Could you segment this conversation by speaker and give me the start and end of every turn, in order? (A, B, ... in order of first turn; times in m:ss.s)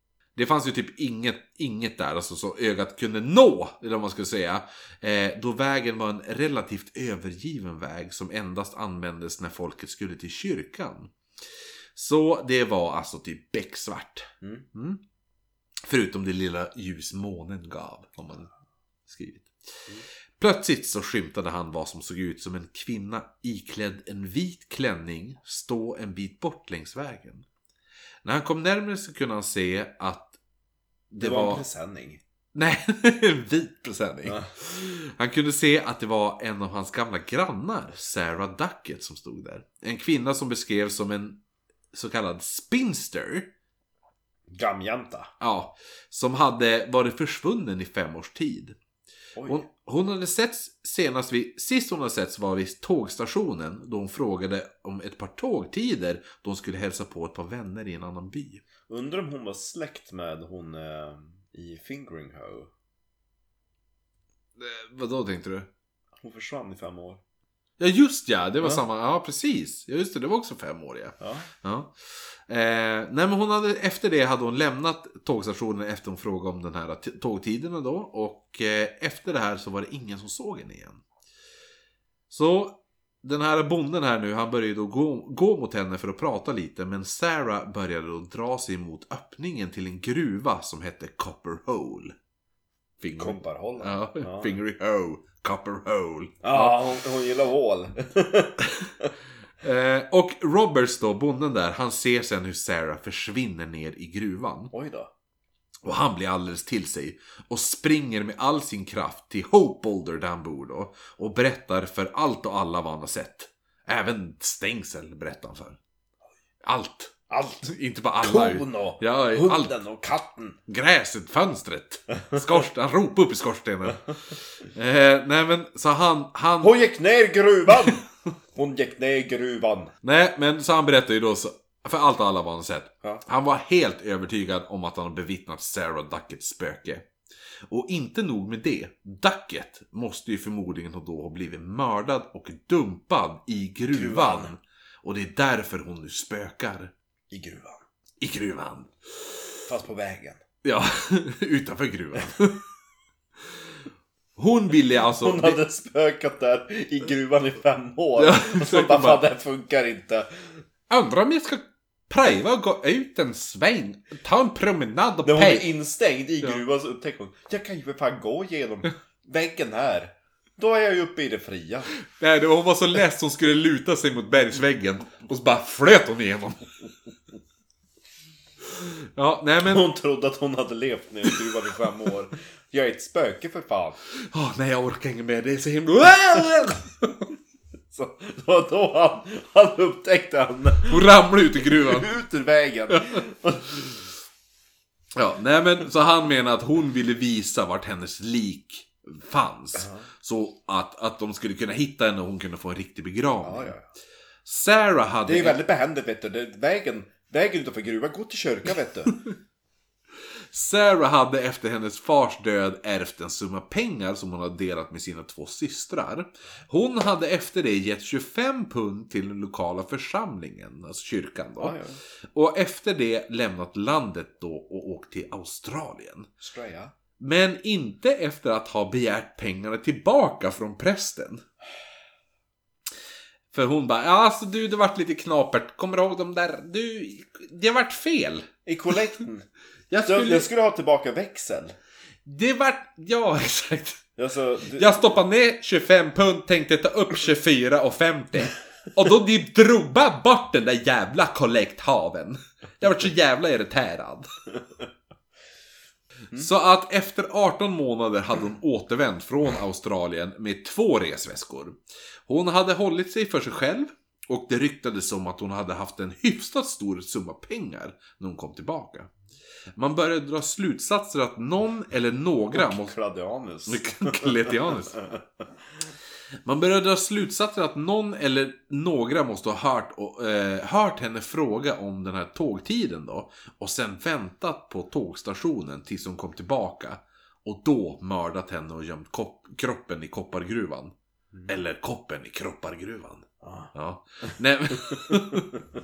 0:00.4-0:11.1 A
0:12.0-0:15.0 A
0:15.9-0:18.5 A
0:19.1-0:19.5 A
0:20.4-0:27.4 A
0:28.2-0:30.4 A
0:31.1-0:31.6 A
0:31.2-0:32.2 B
0:32.5-0:41.4 A
0:34.2-0:34.5 B
0:41.9-0:43.5 A
0:44.5-0:45.3 B
0:45.4-0:48.8 A
0:49.4-0:49.7 B
0:49.4-0:58.6 A
0:58.9-1:02.7 B
1:04.6-1:05.7 A
1:06.2-1:07.2 B
1:07.8-1:12.0 A
1:11.2-1:11.5 B
1:12.5-1:21.0 A
1:22.3-1:32.1 A
1:33.0-1:36.9 A
1:33.2-1:34.6 B
1:36.4-1:39.1 B
1:39.6-1:44.7 A
1:44.7-1:45.1 B
1:45.8-1:55.8 A
1:56.6-1:59.8 A
1:57.3-1:57.6 B
1:58.2-2:00.6 B
2:00.7-2:04.1 A
2:04.6-2:06.8 A
2:06.6-2:10.0 B
2:10.0-2:17.1 A
2:17.7-2:26.9 A
2:23.9-2:24.5 B
2:27.3-2:27.8 B
2:28.2-2:28.9 A
2:29.7-2:30.4 B
2:30.6-2:32.6 A
2:34.4-2:35.6 A
2:35.2-2:40.6 B
2:38.2-2:39.3 A
2:40.9-2:45.7 A
2:45.2-2:51.9 B
2:52.1-2:56.7 A
2:59.2-2:59.9 A
2:59.6-3:04.0 B
3:04.2-3:07.3 A
3:07.9-3:11.1 B
3:10.9-3:12.1 A
3:11.6-3:14.0 B
3:15.2-3:23.8 A
3:19.8-3:20.1 B
3:23.4-3:23.8 B
3:24.5-3:25.6 A
3:25.2-3:29.2 B
3:30.5-3:41.8 A
3:41.6-3:42.0 B
3:42.3-3:46.3 A
3:46.4-3:46.9 B
3:47.2-3:51.4 A
3:53.5-3:58.5 A
3:58.6-3:59.5 B
3:59.9-4:00.5 A
4:00.0-4:01.8 B
4:02.2-4:04.1 A
4:04.2-4:05.0 B
4:04.7-4:14.3 A
4:16.3-4:29.1 A
4:29.8-4:33.0 A
4:32.5-4:34.3 B
4:33.7-4:35.0 A
4:36.4-4:50.9 A
4:51.5-4:55.5 A
4:53.4-4:53.7 B